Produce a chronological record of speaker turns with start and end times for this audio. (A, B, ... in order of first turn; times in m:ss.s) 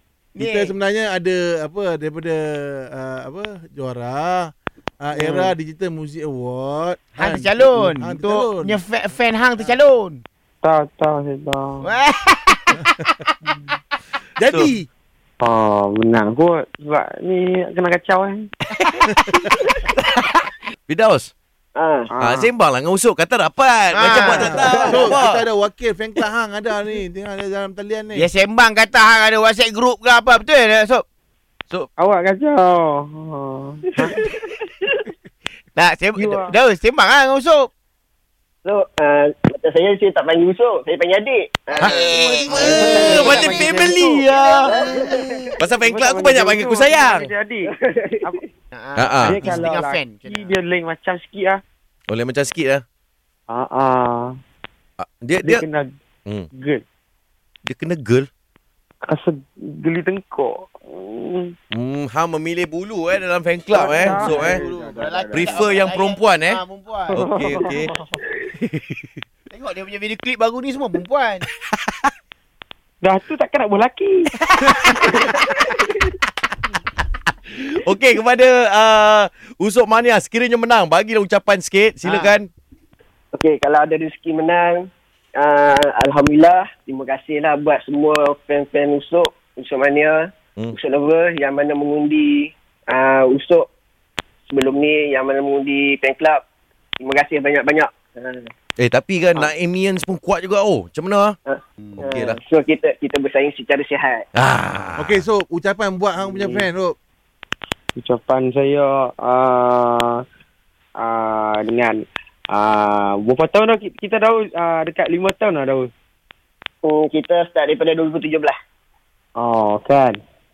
0:00.4-0:00.8 A
0:00.4-0:08.8 B
0:05.1-0:05.5 C
0:07.2-0:10.2 A
0:10.6-0:11.9 C
0:11.8-0:13.3 A
0:14.4-0:14.9 B
0:15.4-0:18.5 C
0:20.9-0:21.3 D
0:21.8-0:22.1 E
0:22.1-0:22.5 C
0:22.2-0:25.4 D
0:23.9-0:25.0 A
0:24.2-0:25.0 E
0:24.2-0:28.3 B
0:28.1-0:31.0 A
0:32.0-0:34.2 C
0:35.8-0:37.7 A
0:36.2-0:36.5 C
0:38.6-0:43.6 E
0:41.7-0:44.8 A
0:41.8-0:44.7 D
0:42.5-0:44.3 C
0:44.6-0:45.5 E
0:45.6-0:47.3 D
0:45.8-0:47.7 C
0:47.8-0:48.3 E
0:48.7-0:50.5 A
0:49.0-0:49.6 D
0:49.2-0:51.6 C
0:52.1-0:52.8 D
0:53.5-0:54.3 C
0:55.0-0:55.6 D
0:55.4-0:55.9 C
0:56.5-0:56.8 C
0:57.7-0:58.3 D
0:59.1-1:01.5 C
1:01.7-1:04.6 D
1:03.7-1:04.6 C
1:04.0-1:05.7 B
1:04.0-1:07.2 A
1:05.3-1:06.6 D
1:07.1-1:08.2 C
1:07.2-1:07.9 D
1:08.6-1:09.1 D
1:09.5-1:11.4 A
1:13.0-1:14.3 C
1:14.5-1:15.3 D
1:17.5-1:22.5 D
1:22.0-1:22.3 A
1:23.3-1:33.7 E
1:34.5-1:36.4 E
1:37.0-1:38.5 E
1:38.8-1:41.4 D
1:41.5-1:44.2 E
1:41.8-1:42.2 A
1:42.0-1:42.4 D
1:44.3-1:45.2 D
1:45.0-1:47.0 B
1:46.2-1:46.7 C
1:48.0-1:50.2 C
1:51.0-1:52.0 C
1:52.5-1:55.9 C
1:56.8-1:58.5 E
1:59.4-2:00.2 C